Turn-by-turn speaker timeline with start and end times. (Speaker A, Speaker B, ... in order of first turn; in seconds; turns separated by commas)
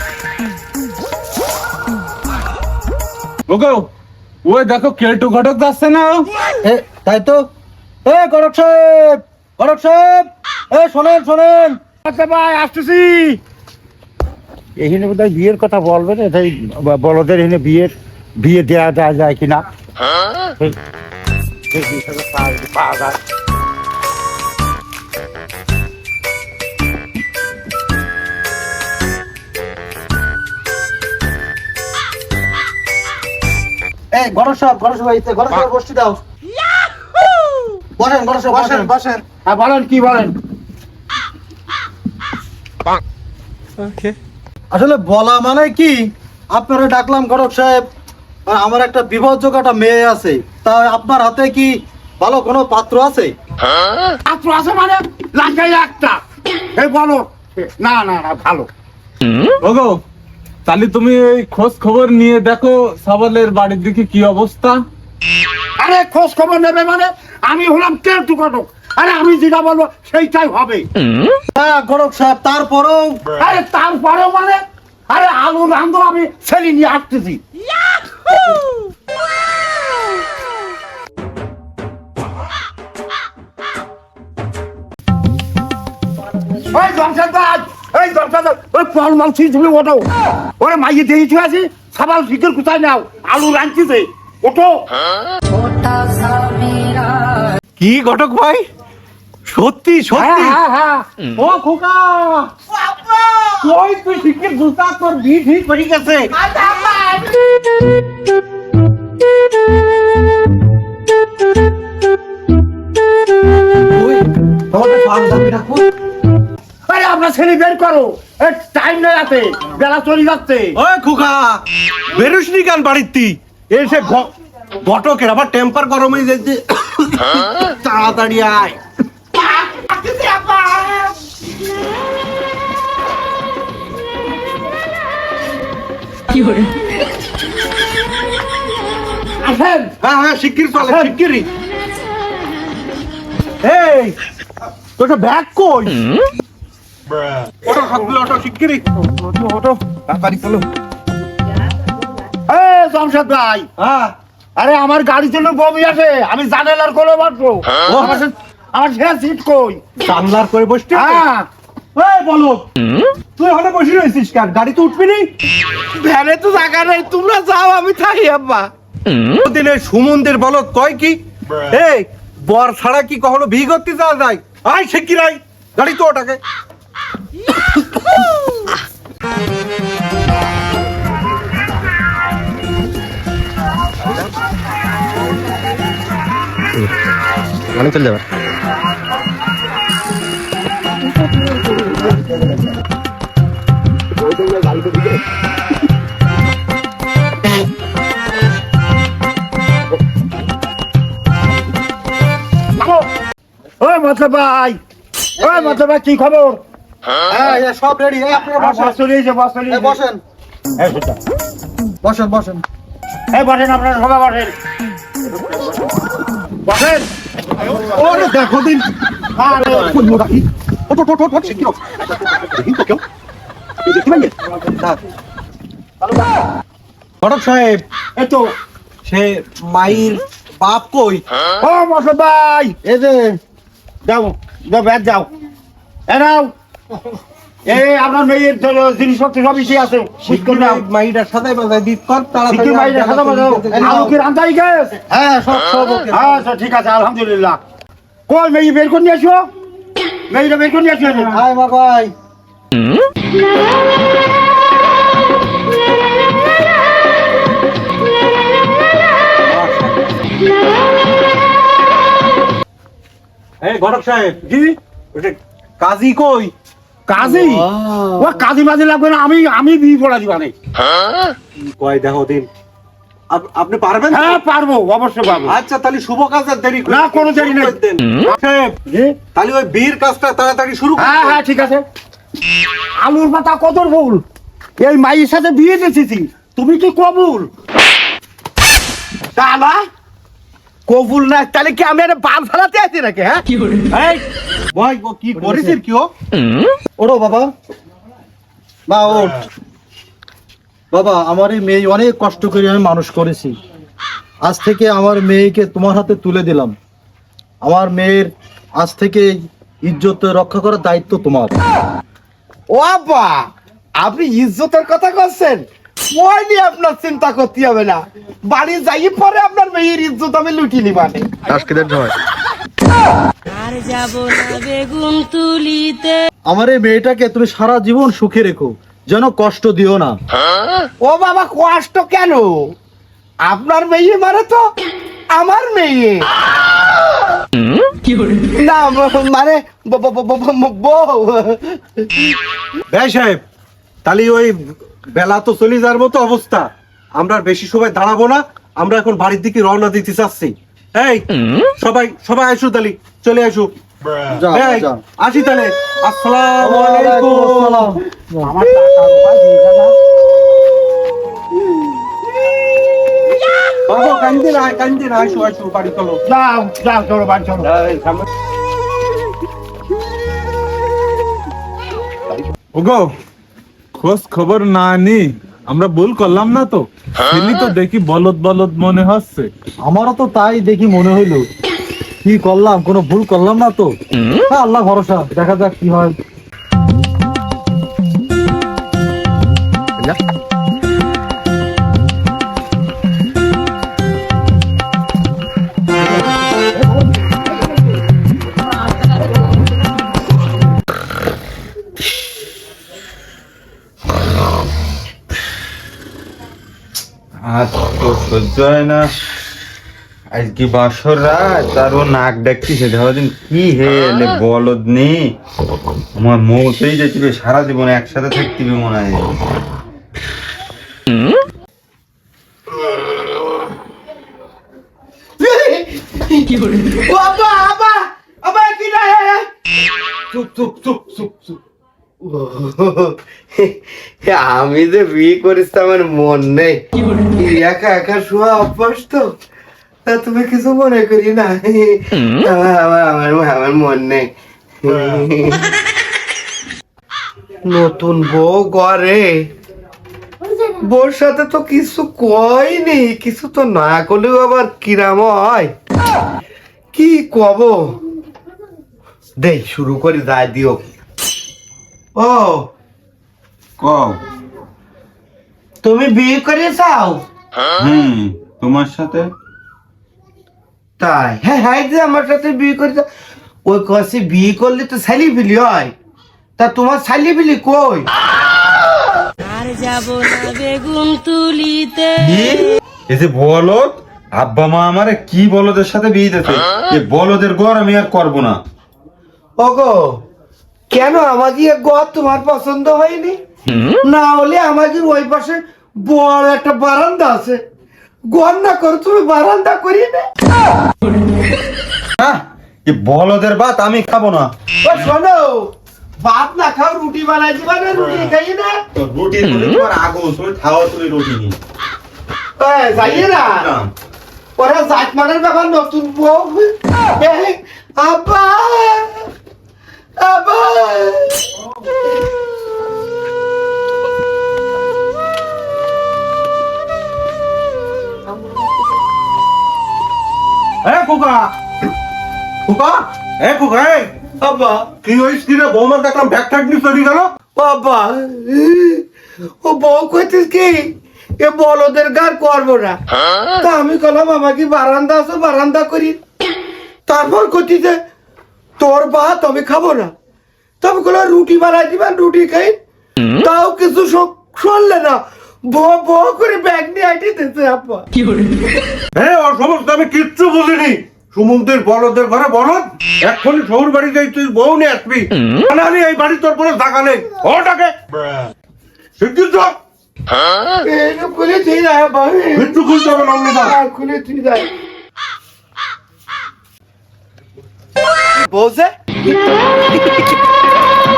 Speaker A: 3.5-3.9, Speaker A: 4.4-6.3, Speaker B: 6.6-7.4, Speaker B: 8.0-11.8, Speaker C: 12.0-13.4, Speaker C: 14.8-19.6, Speaker C: 21.7-23.2, Speaker B: 34.1-36.2, Speaker B: 38.0-39.0, Speaker C: 39.4-40.3, Speaker B: 44.7-47.9, Speaker B: 48.5-53.3, Speaker C: 54.2-56.2, Speaker C: 56.7-58.7, Speaker A: 59.6-60.0, Speaker A: 60.6-64.8, Speaker C: 65.8-70.9, Speaker B: 71.5-73.2, Speaker C: 73.4-77.4, Speaker C: 86.7-90.0, Speaker C: 90.6-94.9, Speaker D: 95.5-97.2, Speaker E: 97.8-98.6, Speaker E: 99.5-100.6, Speaker C: 100.1-101.1, Speaker E: 101.4-102.5, Speaker F: 102.7-103.7, Speaker E: 103.6-106.3, Speaker F: 106.3-107.4, Speaker E: 113.9-115.9, Speaker C: 116.9-120.8, Speaker E: 120.7-124.3, Speaker E: 124.8-128.8, Speaker F: 129.3-131.1, Speaker C: 139.4-139.9, Speaker E: 140.0-141.5, Speaker C: 140.8-141.1, Speaker E: 143.6-144.2, Speaker E: 145.0-146.0, Speaker E: 147.6-148.8, Speaker C: 149.1-149.8, Speaker F: 150.1-150.5, Speaker E: 150.3-150.6, Speaker C: 152.5-153.7, Speaker E: 153.8-154.1, Speaker C: 154.6-159.8, Speaker E: 157.9-158.2, Speaker E: 160.0-161.2, Speaker C: 160.9-161.5, Speaker E: 161.9-162.7, Speaker E: 163.4-165.3, Speaker F: 165.9-168.7, Speaker E: 169.4-176.4, Speaker B: 187.7-188.2, Speaker C: 202.8-203.1, Speaker C: 203.8-204.8, Speaker B: 205.4-205.8, Speaker C: 205.4-206.6, Speaker B: 207.3-209.0, Speaker C: 208.3-210.0, Speaker B: 209.7-210.2, Speaker C: 210.8-211.2, Speaker B: 212.0-212.6, Speaker C: 213.3-214.5, Speaker C: 216.6-217.1, Speaker E: 217.8-218.9, Speaker C: 219.3-220.1, Speaker E: 219.5-223.0, Speaker E: 223.8-225.0, Speaker E: 227.2-227.8, Speaker C: 228.2-228.5, Speaker E: 229.0-231.2, Speaker C: 231.6-232.8, Speaker B: 232.8-233.4, Speaker C: 234.0-235.3, Speaker C: 236.1-236.5, Speaker C: 237.7-240.8, Speaker E: 240.2-244.2, Speaker C: 242.5-245.0, Speaker B: 243.7-244.2, Speaker B: 245.1-246.1, Speaker C: 246.1-247.6, Speaker C: 248.3-249.5, Speaker C: 250.3-251.4, Speaker B: 251.3-252.1, Speaker E: 259.4-260.3, Speaker E: 263.6-266.5, Speaker C: 267.1-267.6, Speaker F: 267.3-267.9, Speaker E: 267.4-268.1, Speaker C: 268.2-270.5, Speaker E: 271.6-272.5, Speaker E: 273.3-274.4, Speaker C: 274.1-275.6, Speaker E: 275.4-278.7, Speaker C: 276.9-277.7, Speaker C: 278.9-279.1, Speaker E: 279.3-281.4, Speaker C: 281.0-281.8, Speaker C: 283.0-284.2, Speaker C: 284.8-287.5, Speaker F: 289.4-289.8, Speaker F: 290.9-293.4, Speaker E: 293.9-296.1, Speaker B: 297.0-297.5, Speaker B: 298.9-299.5, Speaker B: 300.9-303.6, Speaker B: 304.4-306.7, Speaker B: 307.6-311.5, Speaker F: 312.7-313.5, Speaker F: 314.0-321.3, Speaker B: 321.5-322.1, Speaker D: 323.5-326.2, Speaker B: 326.5-330.2, Speaker F: 331.0-332.5, Speaker F: 333.4-334.6, Speaker F: 335.3-336.3, Speaker F: 338.5-342.1, Speaker E: 342.9-343.4, Speaker E: 344.0-344.6, Speaker E: 345.1-351.2, Speaker E: 351.8-353.7, Speaker B: 354.3-355.0, Speaker E: 354.5-357.9, Speaker B: 356.6-358.0, Speaker C: 358.3-359.9, Speaker E: 363.9-366.2, Speaker C: 366.2-367.7, Speaker F: 367.6-368.2, Speaker A: 372.7-373.1, Speaker A: 374.0-379.5, Speaker B: 379.8-381.5, Speaker B: 382.2-383.9, Speaker B: 384.5-386.2, Speaker G: 407.4-409.1, Speaker G: 410.3-415.3, Speaker G: 416.2-419.3, Speaker F: 425.4-429.5, Speaker F: 430.3-431.6, Speaker F: 432.2-436.8, Speaker F: 437.3-439.3, Speaker F: 440.1-444.3, Speaker F: 444.8-445.7, Speaker F: 447.7-449.5, Speaker F: 450.5-455.7, Speaker F: 456.9-458.0, Speaker F: 459.4-460.8, Speaker F: 462.1-462.7, Speaker G: 463.8-464.2, Speaker F: 465.8-467.2, Speaker G: 467.8-469.3, Speaker F: 471.0-473.1, Speaker F: 473.6-475.9, Speaker F: 476.6-478.1, Speaker D: 479.4-482.7, Speaker G: 482.2-488.6, Speaker F: 489.6-490.2, Speaker F: 490.9-493.4, Speaker F: 494.0-497.6, Speaker F: 498.3-500.3, Speaker G: 502.2-504.5, Speaker F: 504.8-508.8, Speaker G: 508.9-511.5, Speaker F: 512.6-513.7, Speaker G: 512.9-513.9, Speaker F: 514.6-519.3, Speaker F: 520.2-521.4, Speaker E: 530.8-531.5, Speaker E: 532.6-534.1, Speaker F: 534.4-534.9, Speaker E: 535.0-537.3, Speaker F: 537.5-539.0, Speaker F: 539.6-540.9, Speaker F: 541.4-543.0, Speaker F: 543.6-546.2, Speaker F: 547.1-548.0, Speaker F: 548.8-550.1, Speaker F: 550.8-552.8, Speaker F: 553.4-558.1, Speaker E: 559.1-568.4, Speaker E: 569.2-569.8, Speaker F: 570.8-572.8, Speaker E: 572.5-573.8, Speaker F: 573.5-574.7, Speaker F: 578.4-578.9